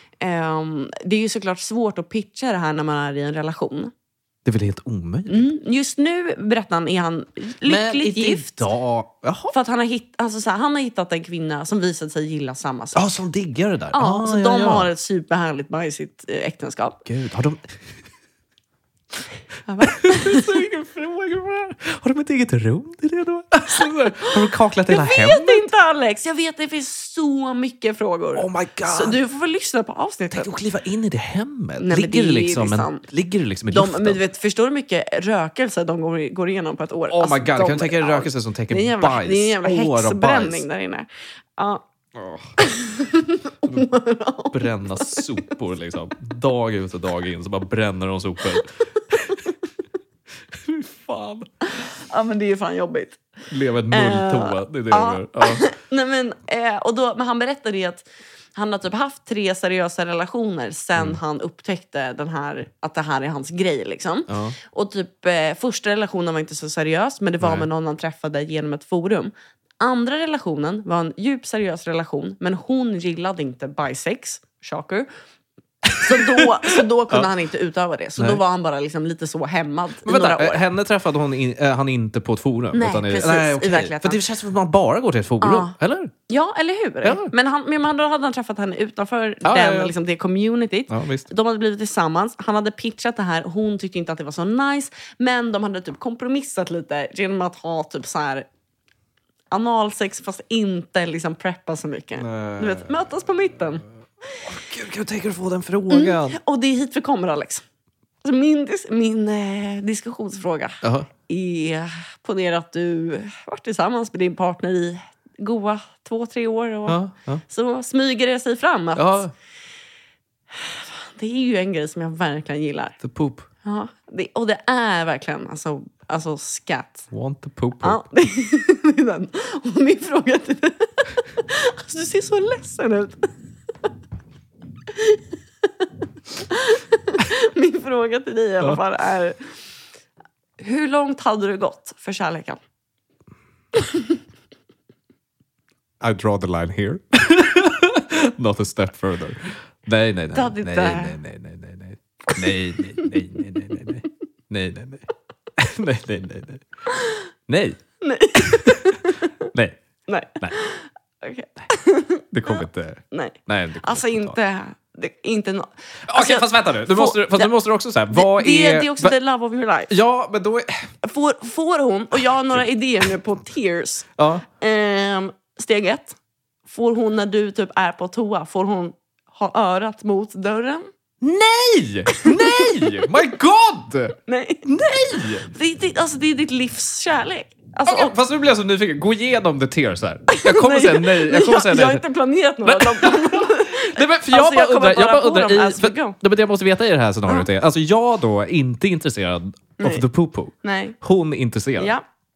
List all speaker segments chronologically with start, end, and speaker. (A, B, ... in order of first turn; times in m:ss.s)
0:00.2-0:03.9 A
0:04.4-0:05.5 B
0:05.3-0:08.7 A
0:07.7-0:09.5 B
0:09.5-0:13.1 A
0:13.0-0:14.9 B
0:13.9-0:17.0 A
0:17.1-0:17.6 B
0:19.7-0:20.6 A
0:19.9-0:25.7 B
0:24.9-0:30.5 A
0:28.3-0:29.2 B
0:30.3-0:34.2 B
0:31.8-0:33.0 A
0:33.7-0:41.8 A
0:37.1-0:40.6 B
0:42.2-0:42.6 B
0:42.6-0:45.3 A
0:44.5-0:49.4 B
0:50.6-0:51.5 B
0:52.0-0:53.2 A
0:53.5-0:55.7 B
0:53.9-1:15.1 A
1:04.3-1:04.6 B
1:07.4-1:07.7 B
1:15.8-1:17.3 B
1:16.0-1:20.6 A
1:20.0-1:26.1 B
1:22.7-1:24.2 A
1:25.4-1:25.7 A
1:26.3-1:38.4 A
1:27.0-1:27.3 B
1:29.4-1:29.9 B
1:30.9-1:31.3 B
1:39.5-1:43.8 A
1:42.2-1:42.9 B
1:44.4-1:46.4 B
1:45.9-1:47.6 A
1:48.2-1:59.2 A
1:50.8-1:51.1 B
1:56.9-1:57.4 B
1:59.0-1:59.3 B
2:00.5-2:03.0 A
2:03.0-2:03.5 B
2:03.6-2:07.1 A
2:07.1-2:08.0 B
2:07.8-2:13.3 A
2:14.9-2:15.9 A
2:16.4-2:19.5 A
2:20.6-2:22.6 A
2:23.8-2:24.0 A
2:26.0-2:35.0 B
2:30.3-2:31.2 A
2:35.6-2:36.6 B
2:37.5-2:37.8 B
2:38.0-2:39.2 A
2:38.4-2:39.0 B
2:39.5-2:39.8 B
2:40.1-2:47.5 A
2:42.3-2:44.4 B
2:46.1-2:49.2 B
2:48.1-2:49.9 A
2:49.9-2:50.9 B
2:51.0-2:56.2 A
2:54.2-2:54.4 B
2:56.7-3:00.9 A
3:01.2-3:05.5 B
3:02.1-3:03.1 A
3:04.3-3:04.7 A
3:05.4-3:08.1 A
3:07.9-3:12.0 B
3:10.3-3:16.2 A
3:12.6-3:21.9 B
3:19.8-3:20.0 A
3:20.6-3:21.0 A
3:21.8-3:22.0 A